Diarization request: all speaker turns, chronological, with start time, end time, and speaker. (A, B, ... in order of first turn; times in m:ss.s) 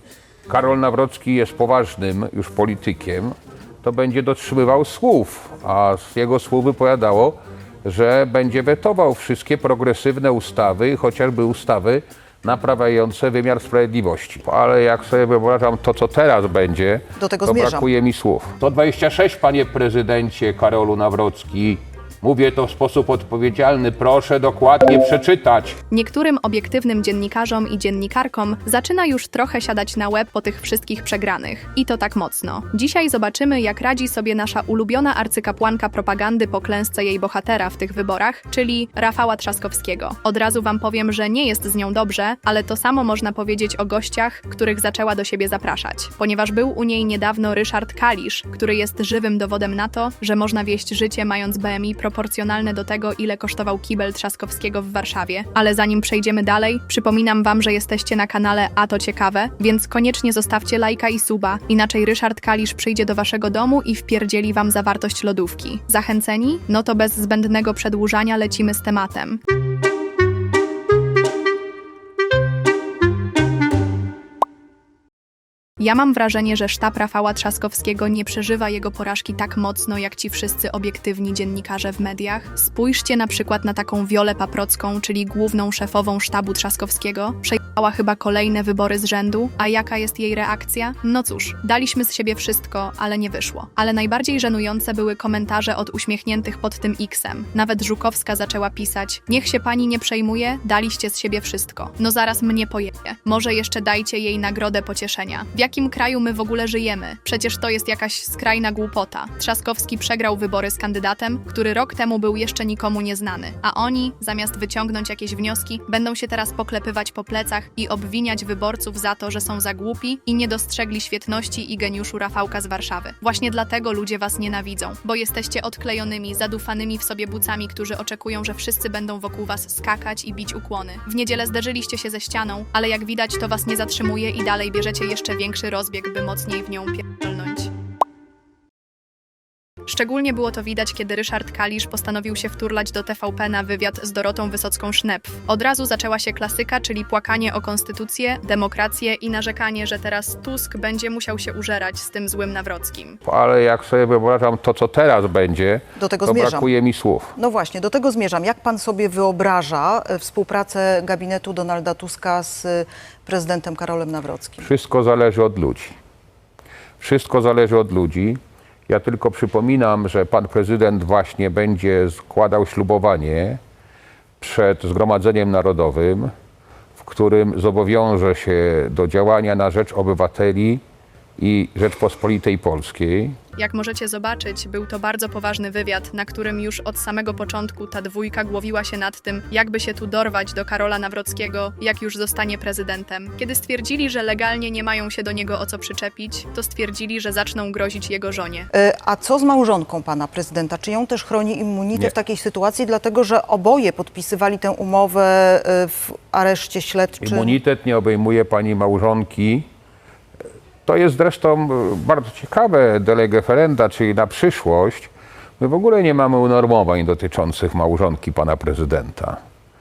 0:00.5-0:25.8 A
0:17.2-0:17.9 B
0:25.9-1:09.4 C
1:15.8-2:17.7 C
2:19.9-2:33.2 C
2:33.2-2:37.3 A
2:36.0-2:36.7 B
2:37.4-2:44.6 B
2:44.6-2:45.9 A
2:47.0-2:53.6 A
2:54.4-2:56.3 A
2:57.0-3:00.8 A
3:01.4-3:03.4 A
3:03.6-3:18.7 C
3:18.7-3:27.6 B
3:27.2-3:29.6 A
3:30.8-3:39.4 A